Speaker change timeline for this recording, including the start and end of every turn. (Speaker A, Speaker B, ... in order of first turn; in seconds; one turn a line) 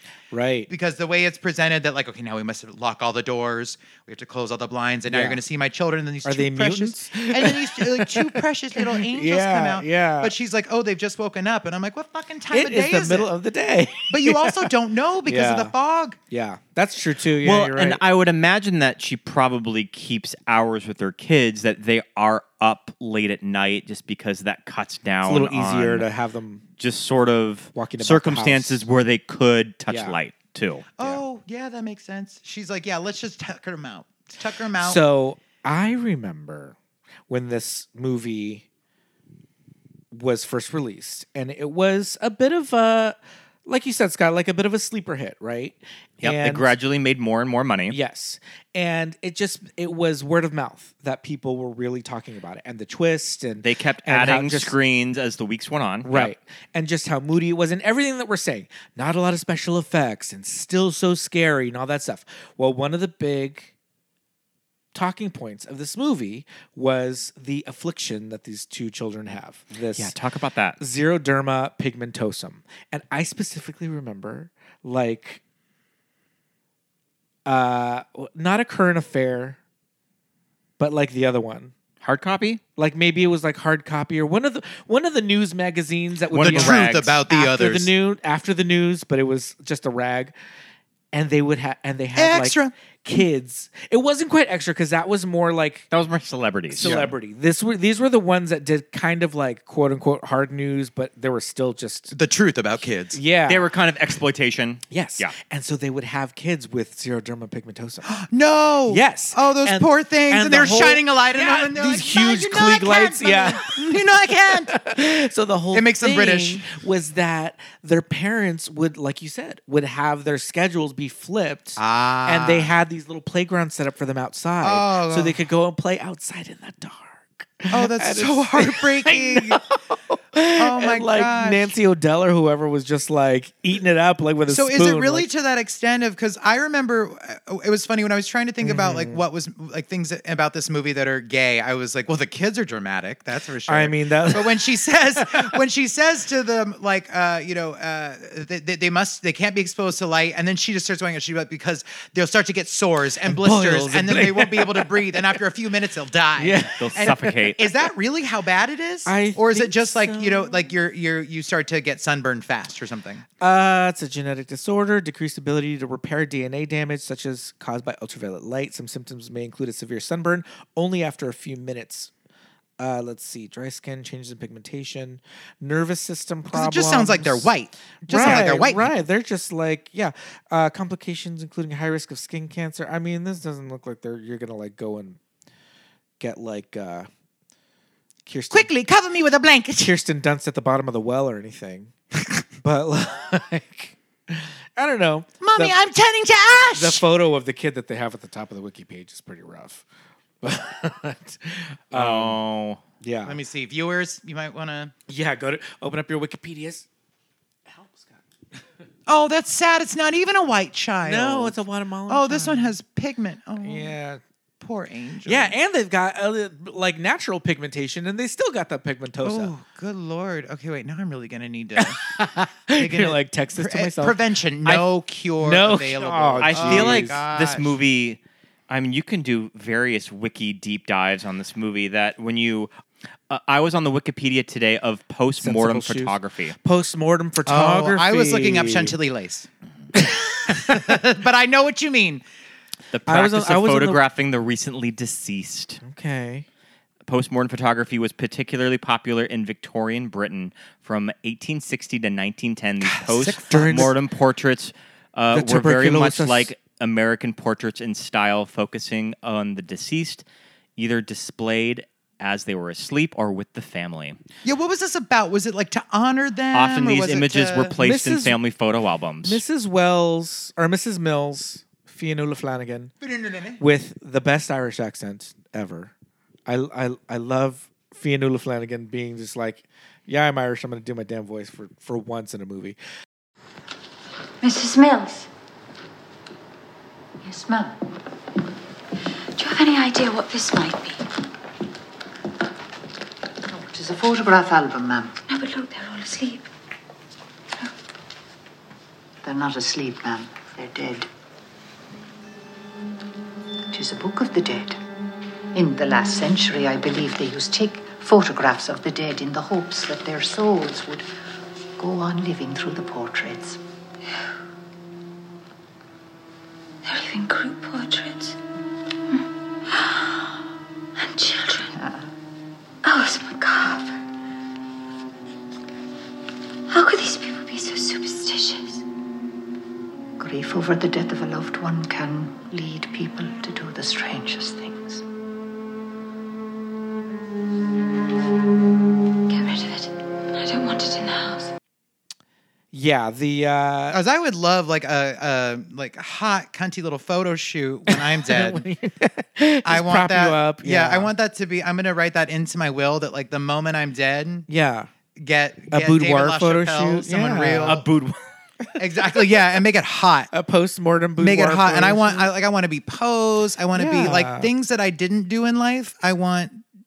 Speaker A: 0.3-0.7
Speaker B: 0.7-13.3
Speaker A: 5.1-5.4
Speaker A: 6.2-10.3
Speaker A: 12.5-14.7
Speaker B: 14.1-16.2
Speaker A: 15.2-15.7
Speaker A: 16.3-18.0
Speaker C: 17.4-26.1
Speaker A: 25.2-26.6
Speaker C: 26.8-30.9
Speaker A: 27.7-28.8
Speaker A: 29.9-30.2
Speaker B: 31.0-35.0
Speaker A: 34.8-36.8
Speaker A: 37.3-38.6
Speaker A: 40.1-46.7
Speaker C: 46.2-48.0
Speaker A: 47.9-54.7
Speaker C: 53.6-56.3
Speaker A: 56.0-63.7
Speaker A: 64.9-70.2
Speaker C: 70.0-70.8
Speaker A: 70.8-75.4
Speaker A: 77.5-79.6
Speaker A: 80.8-81.7
Speaker C: 82.0-82.6
Speaker A: 82.8-90.3
Speaker C: 86.3-87.0
Speaker B: 86.4-87.9
Speaker A: 91.1-95.9
Speaker B: 92.2-92.7
Speaker C: 95.9-97.0
Speaker A: 96.7-102.1
Speaker B: 96.8-97.1
Speaker B: 102.1-103.2
Speaker A: 103.1-103.6
Speaker C: 103.5-105.3
Speaker A: 104.9-108.2
Speaker B: 108.0-114.8
Speaker A: 108.9-135.2
Speaker B: 115.7-116.7
Speaker B: 121.8-122.7
Speaker B: 124.6-125.4
Speaker B: 127.7-129.6
Speaker B: 130.5-131.7
Speaker B: 134.5-163.2
Speaker A: 138.6-139.2
Speaker A: 143.7-145.5
Speaker A: 153.2-155.3
Speaker A: 156.4-157.3
Speaker C: 156.8-157.6
Speaker A: 159.1-160.6
Speaker A: 163.4-172.1
Speaker A: 172.8-177.5
Speaker B: 176.5-178.9
Speaker A: 178.1-185.2
Speaker A: 186.2-187.1
Speaker A: 188.2-188.7
Speaker B: 188.5-189.9
Speaker A: 189.8-191.9
Speaker A: 192.5-195.7
Speaker B: 195.4-197.0
Speaker A: 196.7-199.8
Speaker A: 200.4-202.4
Speaker C: 201.9-202.8
Speaker A: 203.0-203.4
Speaker B: 203.2-204.9
Speaker A: 205.1-206.8
Speaker A: 207.7-208.2
Speaker B: 209.1-211.6
Speaker A: 211.0-212.7
Speaker B: 212.1-213.9
Speaker A: 213.6-214.2
Speaker B: 214.6-215.5
Speaker A: 215.2-219.5
Speaker B: 219.2-222.0
Speaker A: 221.8-224.2
Speaker B: 222.8-227.7
Speaker A: 225.4-227.2
Speaker C: 226.4-232.7
Speaker C: 233.3-236.6
Speaker A: 235.4-238.9
Speaker B: 237.4-239.5
Speaker A: 239.9-241.0
Speaker B: 240.5-242.2
Speaker C: 242.9-245.8
Speaker A: 243.1-244.0
Speaker A: 245.8-246.4
Speaker C: 247.1-260.2
Speaker B: 252.8-253.8
Speaker A: 253.4-253.9
Speaker A: 255.3-256.5
Speaker C: 260.8-264.2
Speaker B: 264.4-267.8
Speaker C: 266.5-269.4
Speaker A: 267.8-268.4
Speaker A: 269.2-272.9
Speaker B: 273.0-273.6
Speaker A: 273.6-275.9
Speaker A: 276.5-282.8
Speaker D: 284.4-285.3
Speaker E: 287.2-287.8
Speaker D: 289.4-291.0
Speaker E: 293.5-295.2
Speaker D: 295.3-296.4
Speaker E: 299.2-301.1
Speaker E: 303.7-304.8
Speaker E: 305.5-311.1
Speaker E: 311.8-313.6
Speaker D: 316.8-318.4
Speaker D: 319.1-320.3
Speaker D: 321.0-321.7
Speaker E: 321.8-322.0
Speaker D: 322.8-324.0
Speaker D: 326.7-328.8
Speaker E: 330.2-335.0
Speaker D: 339.3-341.5
Speaker A: 342.7-344.0
Speaker B: 343.9-348.7
Speaker A: 347.9-351.1
Speaker B: 349.6-354.5
Speaker A: 354.5-354.9
Speaker B: 355.1-357.8
Speaker A: 355.7-359.4
Speaker B: 358.8-360.3
Speaker A: 360.3-362.3
Speaker B: 361.2-366.6
Speaker A: 363.7-364.5